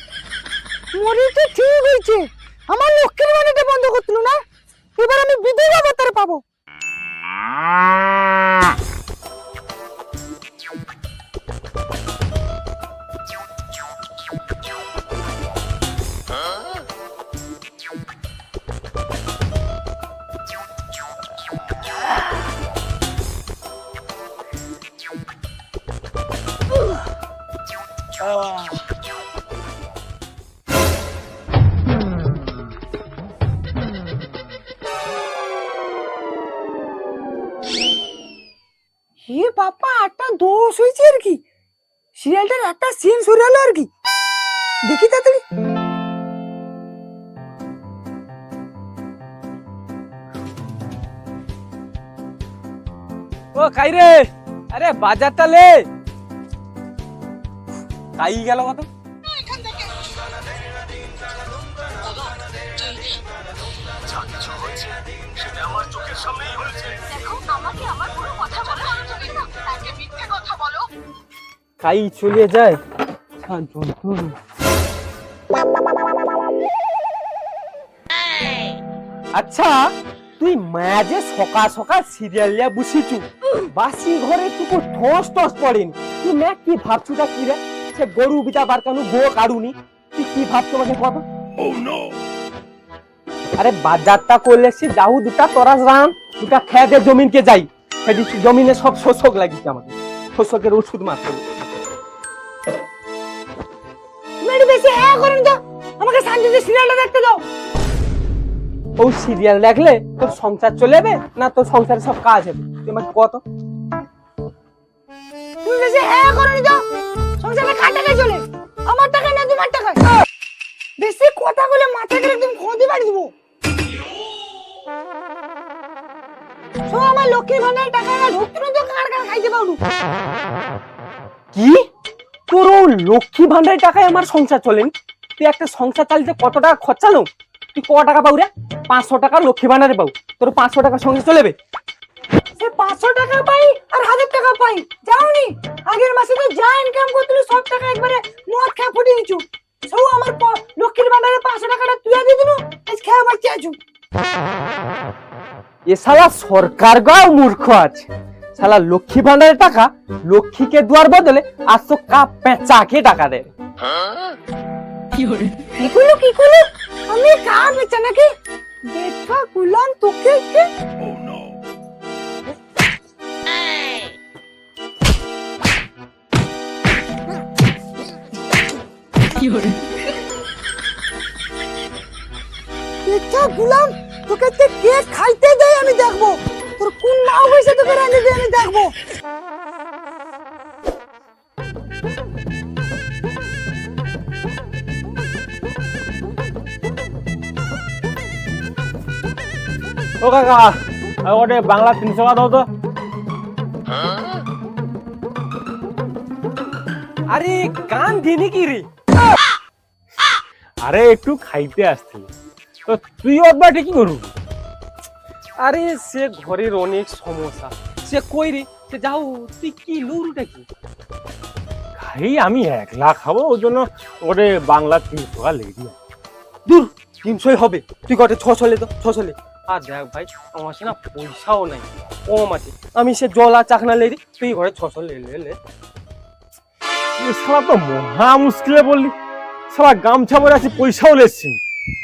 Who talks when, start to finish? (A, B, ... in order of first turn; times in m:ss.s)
0:01.0-0:04.4 A
0:05.0-0:06.4 A
0:39.3-0:41.4 A
0:42.2-0:43.9 A
0:44.9-0:45.4 A
0:53.6-0:55.8 B
0:58.2-0:58.9 B
0:59.3-0:59.8 A
1:06.1-1:06.5 B
1:06.9-1:10.8 A
1:11.8-1:12.8 B
1:13.4-1:14.3 B
1:19.3-1:31.2 B
1:33.6-1:41.4 B
1:44.4-1:47.4 A
1:49.0-1:53.4 B
1:55.6-1:56.8 A
1:57.4-2:00.1 A
2:01.0-2:03.3 A
2:06.9-2:09.8 A
2:11.5-2:11.8 B
2:12.5-2:21.6 B
2:22.6-2:33.8 A
2:35.9-2:43.5 B
2:45.8-2:48.3 A
2:48.9-2:50.7 A
3:03.1-3:09.0 A
3:20.2-3:22.7 C
3:27.3-3:28.9 B
3:30.8-3:32.3 C
3:32.9-3:34.3 C
3:35.6-3:40.7 B
3:42.0-3:46.0 C
3:46.7-3:55.6 B
3:57.2-3:59.1 C
3:59.7-4:01.6 C